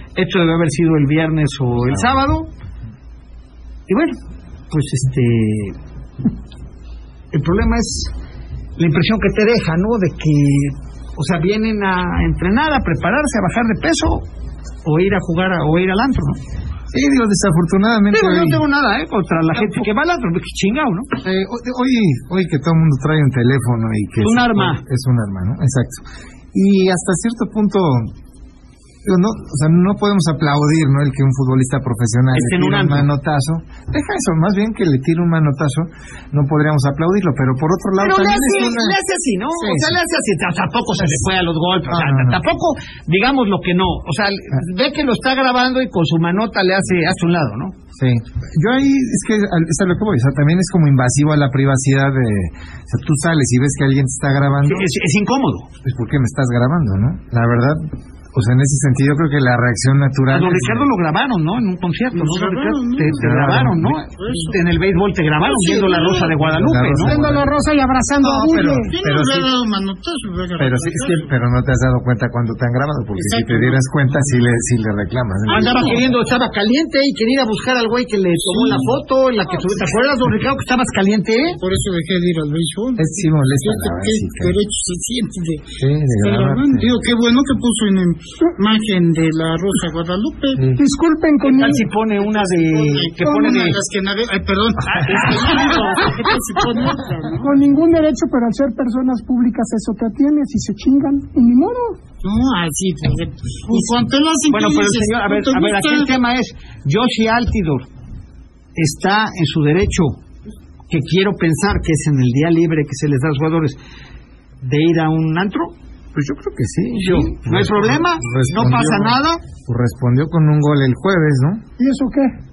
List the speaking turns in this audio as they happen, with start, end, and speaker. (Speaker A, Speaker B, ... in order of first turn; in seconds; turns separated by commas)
Speaker A: 0.1-2.5, Speaker A: 3.9-4.2, Speaker A: 4.7-5.8, Speaker A: 7.3-8.1, Speaker A: 8.8-14.2, Speaker A: 14.8-16.4, Speaker B: 16.9-18.6, Speaker A: 18.1-21.1, Speaker B: 19.6-19.8, Speaker B: 21.2-28.1, Speaker A: 24.2-24.8, Speaker B: 29.0-39.0, Speaker A: 32.3-33.1, Speaker A: 38.0-47.7, Speaker B: 39.6-40.0, Speaker B: 41.0-41.2, Speaker B: 41.9-42.4, Speaker B: 48.0-54.9, Speaker A: 54.6-55.7, Speaker B: 55.8-60.9, Speaker A: 60.3-67.2, Speaker C: 62.1-64.6, Speaker B: 63.1-64.0, Speaker D: 65.4-66.3, Speaker C: 65.6-66.3, Speaker B: 66.5-67.5, Speaker D: 66.8-68.9, Speaker B: 68.2-69.5, Speaker C: 68.7-71.3, Speaker B: 70.6-76.1, Speaker C: 73.2-73.9, Speaker A: 75.5-81.6, Speaker C: 75.5-76.0, Speaker C: 78.5-78.9, Speaker C: 81.6-85.7, Speaker B: 83.0-84.6, Speaker B: 85.8-86.9, Speaker C: 86.2-90.7, Speaker B: 90.5-90.8, Speaker D: 90.8-91.9, Speaker A: 91.5-93.8, Speaker C: 92.1-97.6, Speaker A: 94.9-95.3, Speaker D: 97.4-102.0, Speaker C: 102.2-106.1, Speaker A: 104.5-107.9, Speaker A: 108.8-110.2, Speaker A: 110.9-113.8, Speaker A: 114.6-115.7, Speaker B: 116.1-121.6, Speaker A: 117.0-119.4, Speaker D: 121.8-122.3